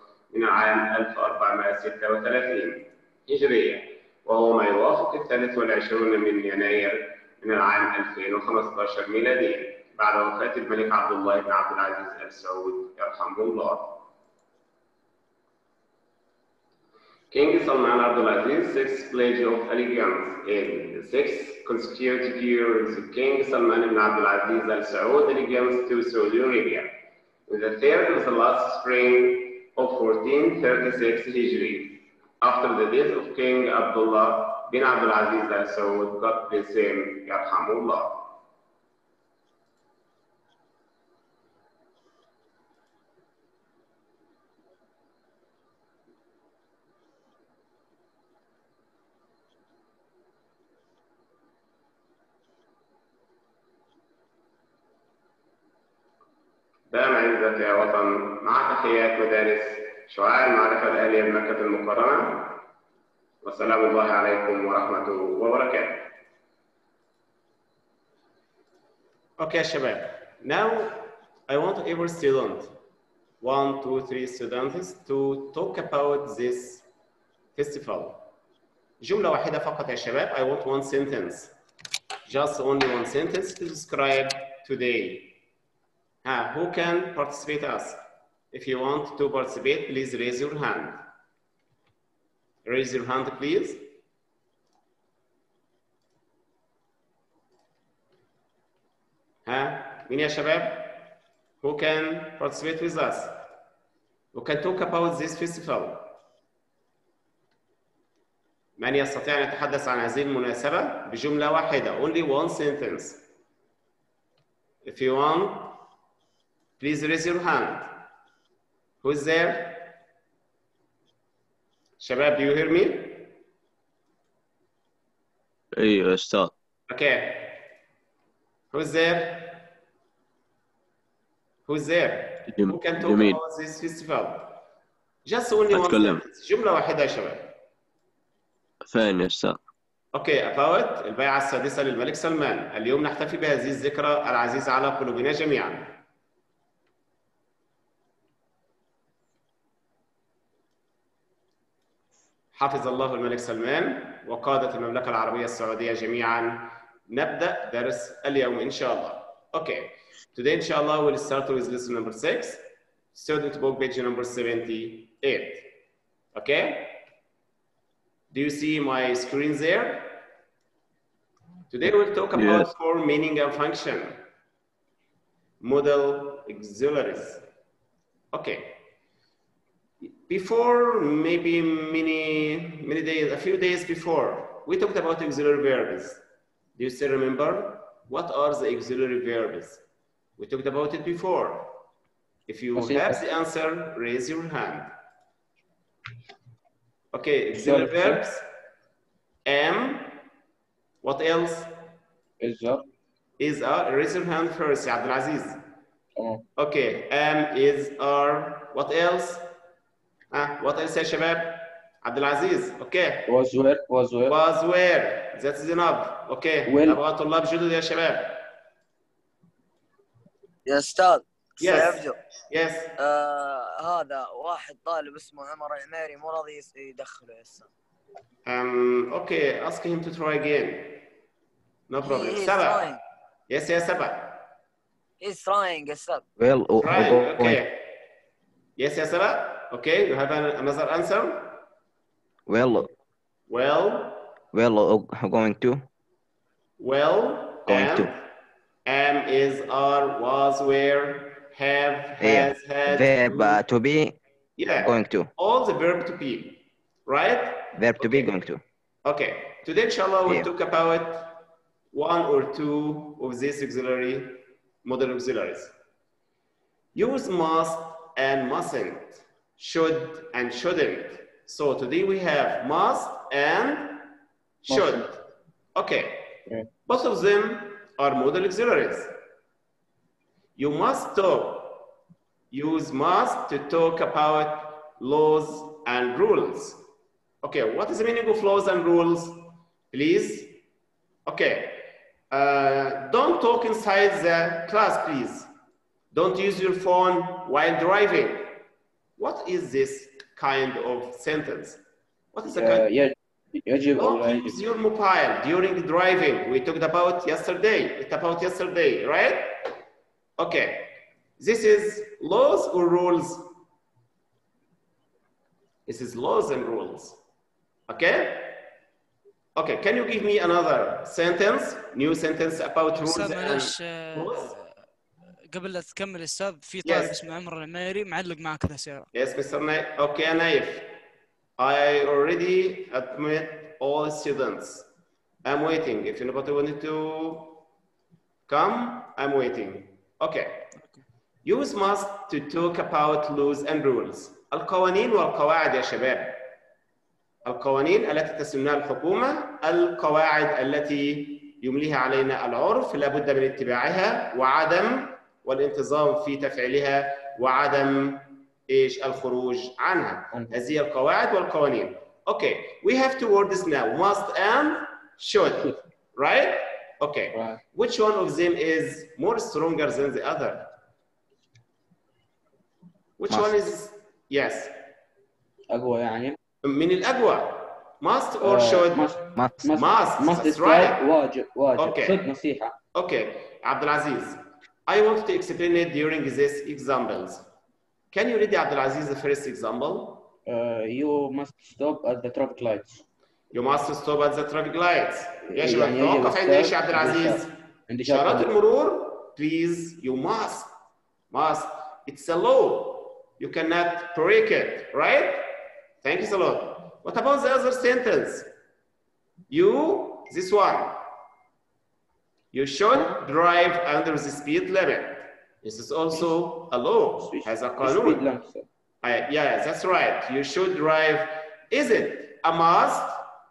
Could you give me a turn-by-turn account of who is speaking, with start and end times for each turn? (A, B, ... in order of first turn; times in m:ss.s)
0:00.3-0:13.9 A
0:17.3-0:26.9 A
0:27.5-0:38.2 A
0:56.9-1:02.6 A
1:03.4-1:06.0 A
1:09.4-1:12.7 A
1:13.4-1:16.8 A
1:17.6-1:18.2 A
1:19.0-1:21.5 A
1:22.2-1:25.3 A
1:26.2-1:28.0 A
1:28.5-1:31.0 A
1:32.6-1:33.9 A
1:39.4-1:41.1 A
1:41.6-1:43.4 A
1:44.3-1:46.1 A
1:48.8-1:53.2 A
1:54.8-1:55.8 A
1:56.8-1:57.9 A
1:59.0-1:59.9 A
2:02.0-2:03.3 A
2:05.7-2:06.5 B
2:06.9-2:07.6 A
2:08.7-2:09.6 A
2:11.6-2:14.6 A
2:12.5-2:13.4 B
2:15.2-2:17.5 A
2:15.7-2:16.2 B
2:18.8-2:19.6 B
2:20.1-2:25.9 A
2:32.5-2:42.6 A
2:43.1-2:45.7 A
2:46.3-2:47.0 A
2:48.3-2:50.2 A
2:51.7-2:54.2 A
2:52.3-2:52.7 B
2:55.6-2:57.4 A
2:58.3-2:58.8 A
3:00.0-3:06.2 A
3:06.8-3:09.8 A
3:10.4-3:11.7 A
3:12.5-3:14.9 A
3:12.8-3:13.2 C
3:17.1-3:18.4 A
3:17.5-3:18.2 C
3:19.4-3:20.2 A
3:21.0-3:21.7 A
3:22.4-3:22.8 C
3:23.4-3:25.6 A
3:26.2-3:26.4 C
3:26.6-3:29.4 A
3:30.3-3:33.3 A
3:33.3-3:34.3 C
3:34.2-3:38.4 A
3:36.7-3:37.0 C
3:40.6-3:42.2 D
3:41.6-3:42.9 A
3:43.0-3:47.7 D
3:48.4-3:51.0 A
3:51.9-3:52.8 A
3:52.0-3:53.0 D
3:53.5-3:54.4 A
3:55.2-3:56.2 D
3:56.4-3:57.6 E
3:56.8-3:57.8 A
3:58.8-4:01.6 A
4:02.5-4:02.9 E
4:03.5-4:04.3 A
4:04.5-4:05.8 E
4:06.8-4:08.2 A
4:07.7-4:08.1 E
4:08.8-4:13.6 A
4:12.2-4:14.2 E
4:14.6-4:18.3 A
4:14.8-4:15.3 E
4:17.8-4:18.6 E
4:19.0-4:21.4 A
4:21.9-4:25.7 A
4:26.9-4:34.1 A
4:34.6-4:35.2 A
4:34.7-4:35.0 C
4:35.8-4:39.1 A
4:40.6-4:41.8 A
4:42.5-4:46.8 A
4:47.4-4:50.5 A
4:51.2-4:55.5 A
4:56.1-4:58.6 A
4:59.2-5:01.8 A
5:02.3-5:02.9 A
5:02.5-5:04.6 C
5:04.0-5:09.5 A
5:10.4-5:13.5 A
5:15.9-5:17.2 A
5:17.9-5:18.6 A
5:19.6-5:24.5 A
5:22.9-5:24.7 F
5:25.5-5:29.1 F
5:26.8-5:27.2 A
5:29.1-5:30.9 A
5:31.6-5:34.9 A
5:35.4-5:37.6 A
5:38.5-5:40.7 A
5:41.4-5:46.4 A
5:47.4-6:10.7 A
6:07.3-6:07.6 C
6:13.2-6:14.7 A
6:13.3-6:13.6 E
6:15.7-6:16.4 C
6:16.6-6:19.0 A
6:18.4-6:22.7 C
6:19.7-6:21.0 A
6:21.8-6:22.2 A
6:22.9-6:27.4 A
6:28.1-6:30.3 A
6:30.4-6:33.0 C
6:33.5-6:40.7 A
6:35.5-6:38.5 C
6:41.3-6:45.5 A
6:46.0-6:48.5 A
6:49.5-6:51.0 A
6:52.5-6:58.2 A
6:57.2-6:58.6 C
6:59.0-7:03.2 A